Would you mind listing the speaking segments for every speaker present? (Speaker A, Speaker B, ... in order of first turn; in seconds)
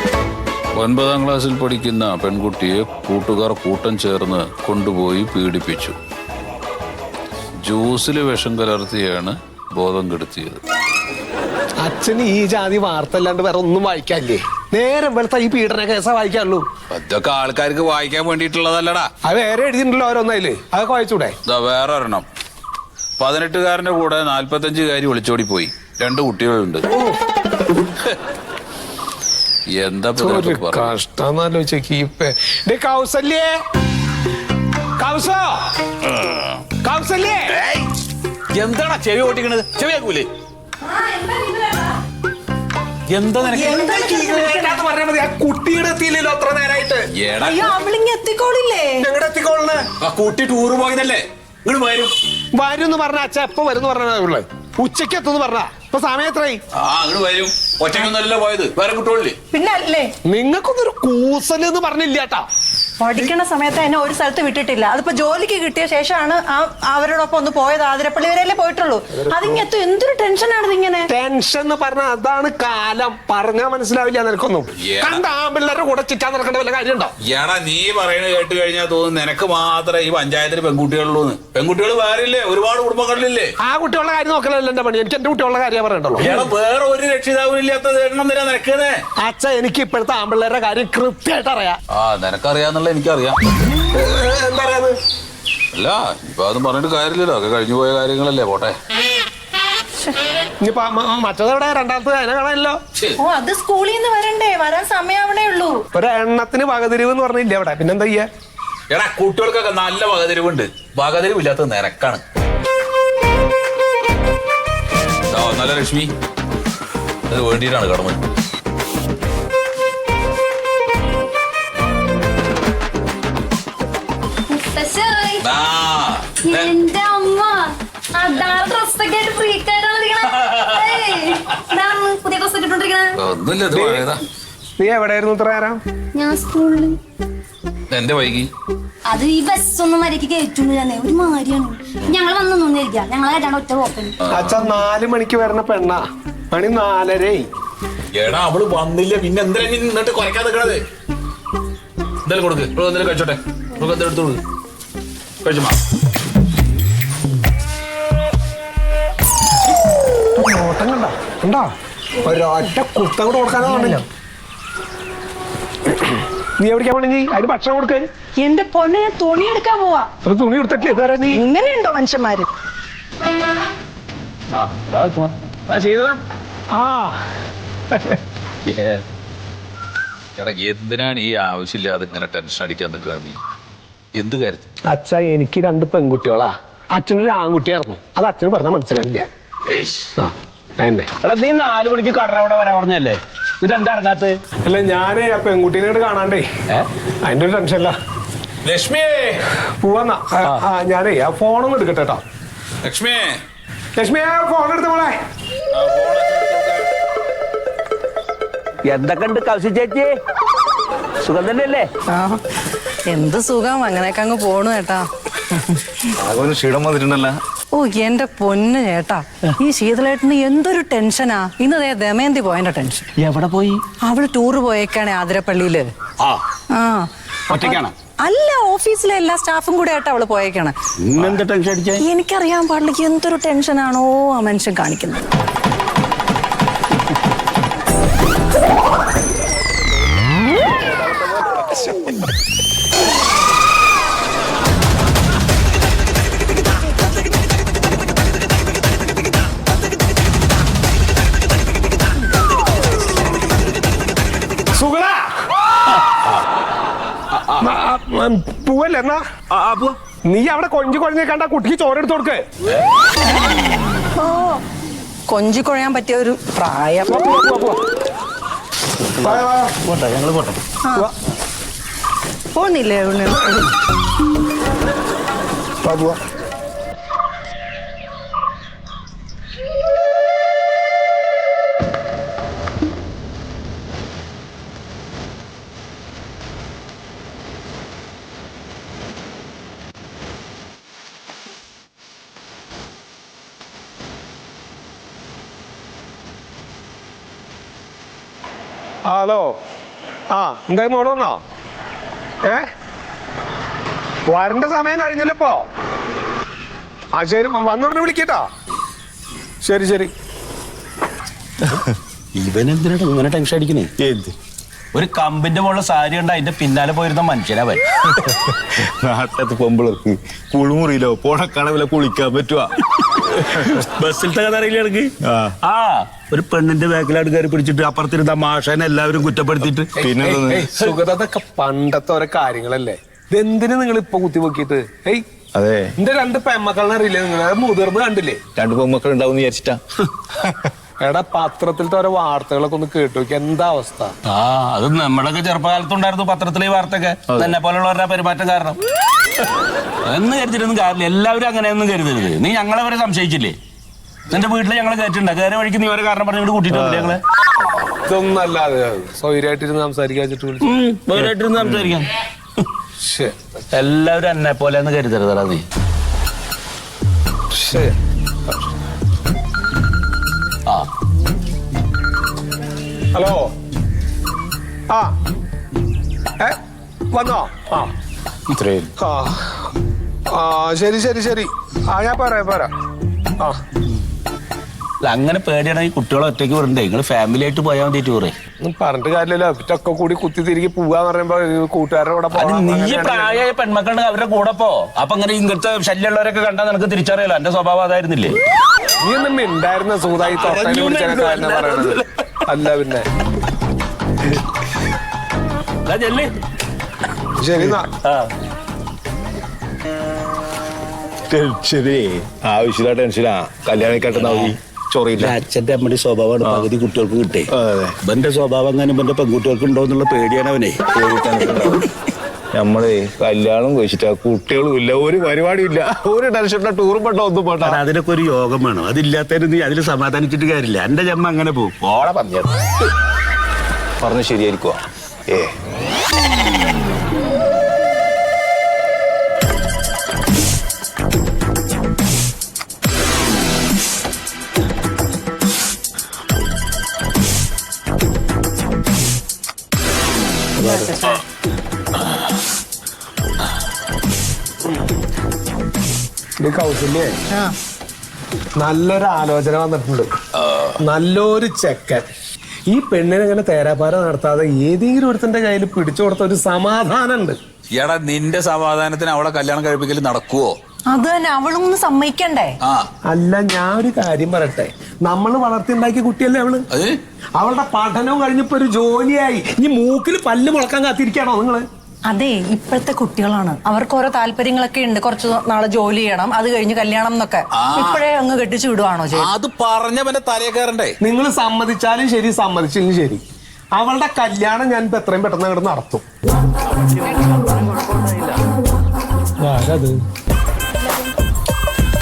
Speaker A: 0.8-6.0, 7.7-10.6, 16.9-19.1, 21.4-22.2, 23.2-26.9, 29.8-30.9, 36.1-36.5, 37.5-37.9, 38.5-40.3, 43.1-43.8, 47.1-47.7, 50.0-52.2, 56.8-59.4, 74.8-75.2, 77.2-83.5, 86.2-89.0, 91.9-93.4, 95.7-98.8, 108.9-112.2, 115.3-116.1, 117.3-118.2, 125.4-126.8, 133.2-134.2, 137.9-138.5, 144.2-144.7, 148.1-150.8, 152.2-154.4, 155.4-155.8, 180.4-183.4, 184.1-184.7, 198.7-199.5, 202.8-203.4, 205.7-206.9, 460.4-460.8, 467.8-470.6, 472.6-472.9, 476.7-477.0, 487.6-488.0, 489.1-491.0
Speaker B: 11.8-16.6, 19.2-21.4, 26.9-27.2, 30.2-33.5, 35.0-35.6, 36.8-37.6, 43.5-47.1, 49.0-49.9, 52.5-56.6, 60.3-62.5, 69.1-69.7, 71.1-77.1, 83.6-86.5, 89.2-91.8, 93.8-95.0, 100.6-102.8, 105.9-108.3, 133.7-134.2, 134.8-135.8, 144.3-147.5, 160.4-161.7, 162.2-164.1, 165.9-168.1, 170.2-171.4, 176.7-177.2, 184.9-189.3, 190.2-191.1, 194.6-196.5, 197.2-197.9, 199.6-202.2, 204.0-205.2, 254.7-255.3, 257.6-259.2, 260.3-262.5, 267.1-267.8, 269.2-269.7, 275.8-276.2, 299.1-299.6, 300.3-301.4, 304.3-305.6, 307.1-308.5, 309.6-310.1, 330.0-335.2, 336.0-338.4, 341.0-344.1, 358.1-360.8, 363.0-363.4, 367.5-368.0, 373.1-373.5, 374.9-375.1, 377.1-377.9, 379.0-379.6, 380.3-382.7, 388.6-393.4, 399.0-403.1, 407.4-407.9, 450.6-450.9, 456.4-457.2, 458.6-460.1, 460.8-462.1, 462.7-467.4, 473.1-476.7, 477.4-481.6, 491.0-493.2, 493.8-496.0, 499.4-499.9
Speaker C: 40.9-41.9, 43.4-44.8, 47.4-49.1, 59.5-60.1, 63.0-71.1, 103.2-105.8, 168.4-170.1, 171.3-172.5, 212.1-212.4, 213.1-215.1, 217.7-223.1, 224.0-225.9, 226.7-230.7, 232.0-235.2, 264.2-264.6, 265.3-267.3, 272.6-273.6, 450.6-451.2, 470.9-472.6, 482.1-489.3
Speaker D: 124.5-125.4, 126.5-133.1, 136.1-137.0, 139.1-144.1
Speaker E: 174.6-176.2, 191.2-194.4, 208.9-210.1, 211.2-211.9, 223.2-223.8, 227.5-227.9, 231.0-232.0, 257.4-257.7, 259.5-259.9, 269.2-270.6, 312.4-313.9, 314.9-317.8, 323.4-325.1, 325.6-329.9, 344.2-348.8, 350.1-353.6, 354.3-357.2, 360.6-362.6, 363.7-365.6, 385.0-388.3, 392.3-398.4, 400.2-402.1, 405.9-406.3, 408.0-408.3, 413.9-414.6, 415.2-417.5, 418.0-420.9, 427.6-432.6
Speaker F: 216.2-217.3, 314.0-314.3, 318.2-322.7, 323.4-323.8, 325.2-325.5, 330.0-330.7, 335.5-335.9, 338.6-339.8, 340.3-340.7, 356.7-357.2, 361.6-361.9, 378.6-378.9, 411.3-415.4, 416.4-416.7, 417.5-418.0, 420.9-421.9, 422.5-427.8, 434.0-435.5